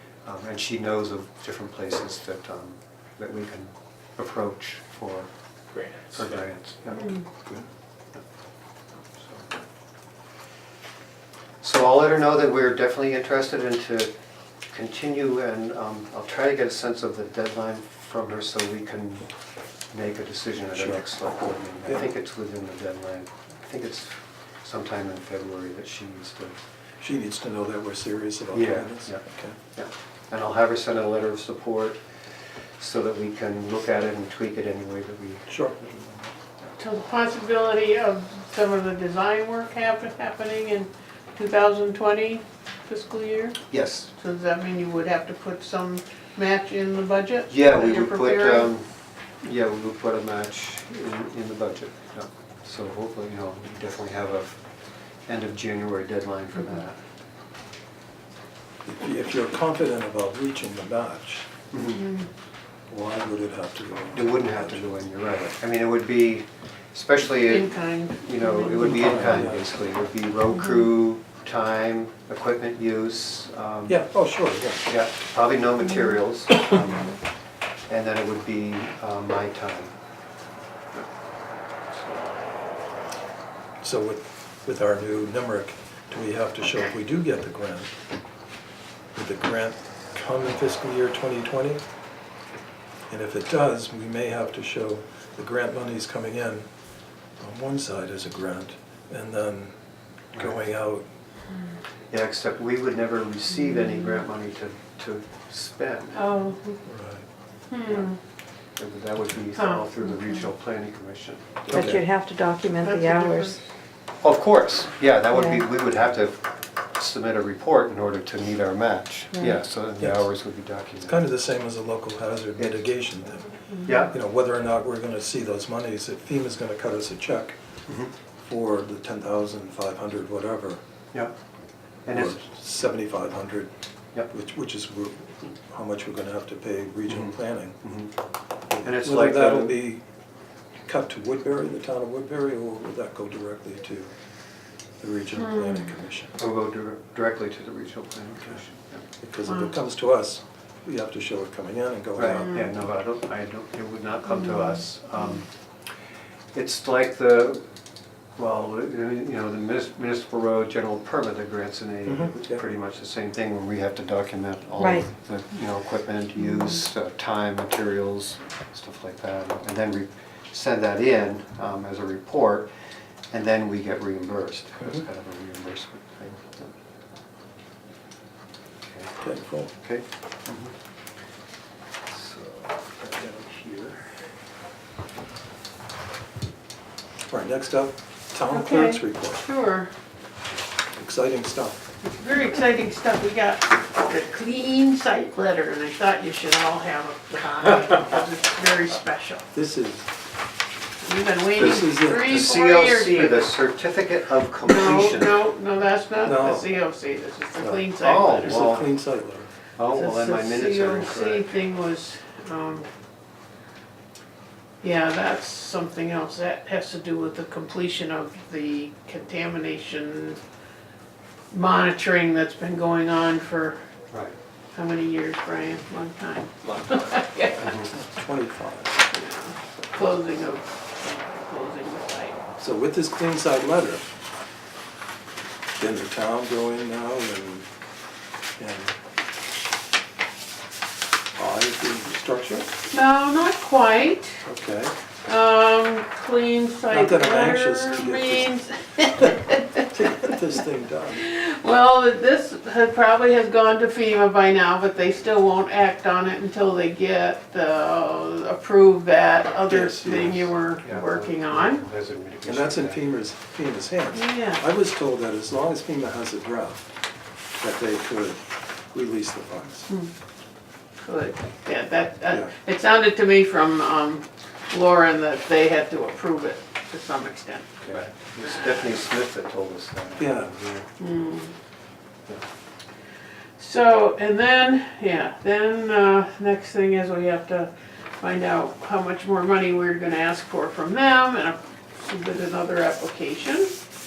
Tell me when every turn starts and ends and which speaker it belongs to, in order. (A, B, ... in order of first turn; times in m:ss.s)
0:00.2-0:05.3 A
0:05.7-0:06.4 B
0:06.1-0:07.2 A
0:09.2-0:09.4 A
0:11.6-0:14.1 A
0:14.7-0:19.3 A
0:19.9-0:26.6 A
0:20.8-0:21.0 B
0:27.0-0:29.6 B
0:28.5-0:32.0 A
0:32.8-0:36.3 A
0:35.5-0:35.9 B
0:36.8-0:43.6 C
0:43.6-0:44.1 A
0:44.1-0:48.7 C
0:47.5-0:48.9 A
0:49.4-0:54.6 A
0:55.3-0:57.0 A
0:58.9-1:01.5 B
1:01.7-1:02.1 A
1:02.0-1:02.3 C
1:02.9-1:03.3 A
1:03.1-1:04.8 B
1:04.1-1:14.0 A
1:07.4-1:09.0 C
1:08.8-1:09.7 B
1:13.9-1:14.9 B
1:14.9-1:17.2 A
1:17.9-1:19.9 A
1:23.8-1:27.9 B
1:29.2-1:31.8 B
1:33.1-1:36.7 B
1:37.4-1:39.7 B
1:40.3-1:40.6 A
1:40.3-1:41.0 B
1:42.1-1:46.5 A
1:46.2-1:46.8 C
1:46.9-1:47.2 B
1:47.7-1:48.2 C
1:47.9-1:48.1 A
1:48.8-1:52.0 A
1:49.6-1:50.4 C
1:51.7-1:52.0 B
1:51.7-1:53.6 D
1:52.8-1:53.6 C
1:54.2-2:01.2 A
1:55.3-1:55.6 D
2:00.0-2:00.3 B
2:01.1-2:03.5 B
2:02.6-2:02.9 A
2:03.8-2:04.2 A
2:04.1-2:07.6 B
2:08.5-2:10.8 B
2:12.1-2:12.4 A
2:12.1-2:13.7 B
2:14.3-2:17.8 B
2:17.1-2:18.1 A
2:18.7-2:20.0 B
2:18.8-2:19.8 A
2:20.9-2:24.1 B
2:25.0-2:26.4 B
2:25.4-2:26.0 C
2:26.4-2:29.0 A
2:29.2-2:32.7 B
2:32.2-2:35.5 A
2:34.4-2:34.8 C
2:36.5-2:37.6 A
2:38.4-2:52.7 A
2:42.1-2:42.6 B
2:53.3-2:56.7 A
2:58.8-2:59.2 A
2:59.2-2:59.8 B
2:59.8-3:00.7 A
3:02.1-3:04.2 A
3:07.3-3:09.4 B
3:08.5-3:09.9 C
3:11.0-3:11.8 B
3:12.0-3:19.4 C
3:19.5-3:20.1 B
3:21.0-3:23.6 C
3:21.6-3:22.4 B
3:22.3-3:25.5 A
3:24.6-3:28.8 C
3:26.2-3:26.7 B
3:27.6-3:28.9 A
3:28.4-3:29.5 B
3:29.8-3:31.5 A
3:29.9-3:32.9 C
3:34.8-3:40.4 C
3:41.5-3:43.8 C
3:44.8-3:47.7 C
3:47.6-3:49.0 B
3:47.6-3:47.9 A
3:49.1-3:52.4 C
3:52.6-3:54.1 B
3:55.8-3:57.7 B
3:58.6-3:59.0 B
4:01.4-4:02.7 B
4:02.9-4:04.4 C
4:04.4-4:04.9 B
4:05.2-4:10.2 C
4:06.9-4:08.5 B
4:09.9-4:11.2 B
4:11.1-4:21.8 C
4:19.7-4:20.5 B
4:20.8-4:23.0 A
4:22.4-4:26.8 B
4:24.1-4:24.6 C
4:27.6-4:29.9 B
4:31.0-4:37.9 C
4:37.8-4:40.9 A
4:38.4-4:38.8 C
4:40.2-4:40.5 B
4:41.0-4:41.5 C
4:43.6-4:53.8 C